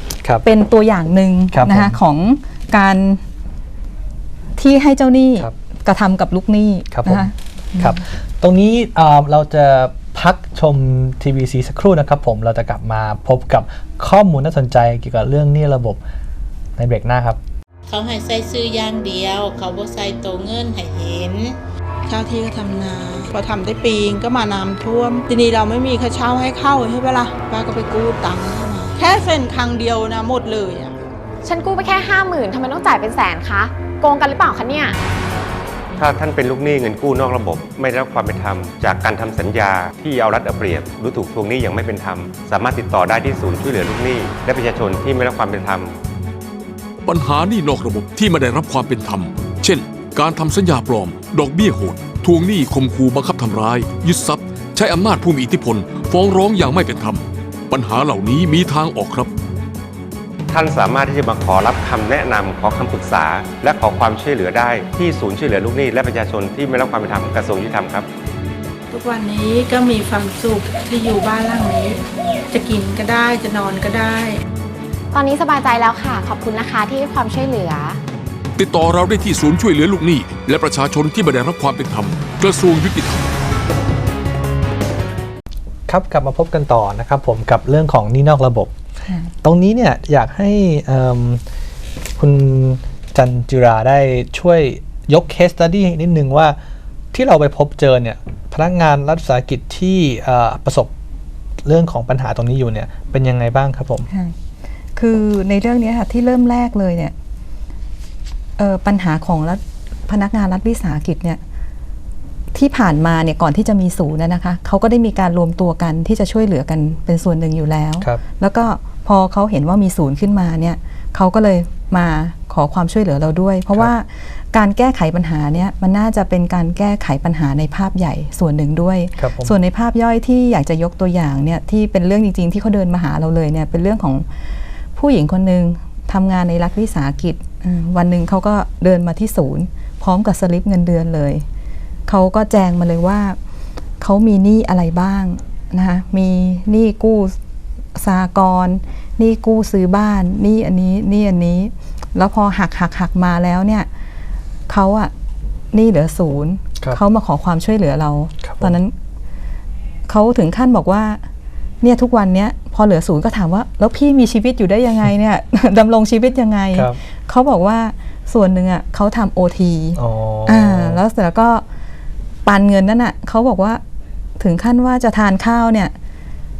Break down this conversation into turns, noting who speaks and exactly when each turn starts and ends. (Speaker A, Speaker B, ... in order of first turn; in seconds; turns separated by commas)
Speaker A: 0.4-3.2, Speaker B: 1.5-2.0, Speaker A: 4.6-8.0, Speaker B: 6.9-16.0, Speaker B: 16.8-17.4, Speaker C: 17.9-21.6, Speaker D: 22.1-31.0, Speaker E: 31.4-35.0, Speaker F: 36.0-45.9, Speaker G: 47.0-59.3, Speaker F: 60.5-68.1, Speaker D: 68.9-74.4, Speaker E: 75.1-78.0, Speaker G: 78.6-83.3, Speaker B: 85.9-88.7, Speaker A: 89.1-89.3, Speaker B: 89.4-91.4, Speaker B: 92.2-96.6, Speaker B: 97.1-100.9, Speaker B: 101.7-104.1, Speaker A: 104.1-104.3, Speaker A: 105.0-107.1, Speaker A: 108.6-111.4, Speaker A: 112.5-134.3, Speaker B: 129.2-129.6, Speaker A: 134.9-141.4, Speaker A: 142.1-143.4, Speaker A: 144.0-147.4, Speaker A: 147.9-153.9, Speaker A: 154.7-155.1, Speaker A: 155.7-158.9, Speaker B: 158.4-158.8, Speaker A: 160.1-161.2, Speaker A: 161.8-171.6, Speaker B: 170.0-171.0, Speaker A: 172.4-173.8, Speaker A: 174.4-175.9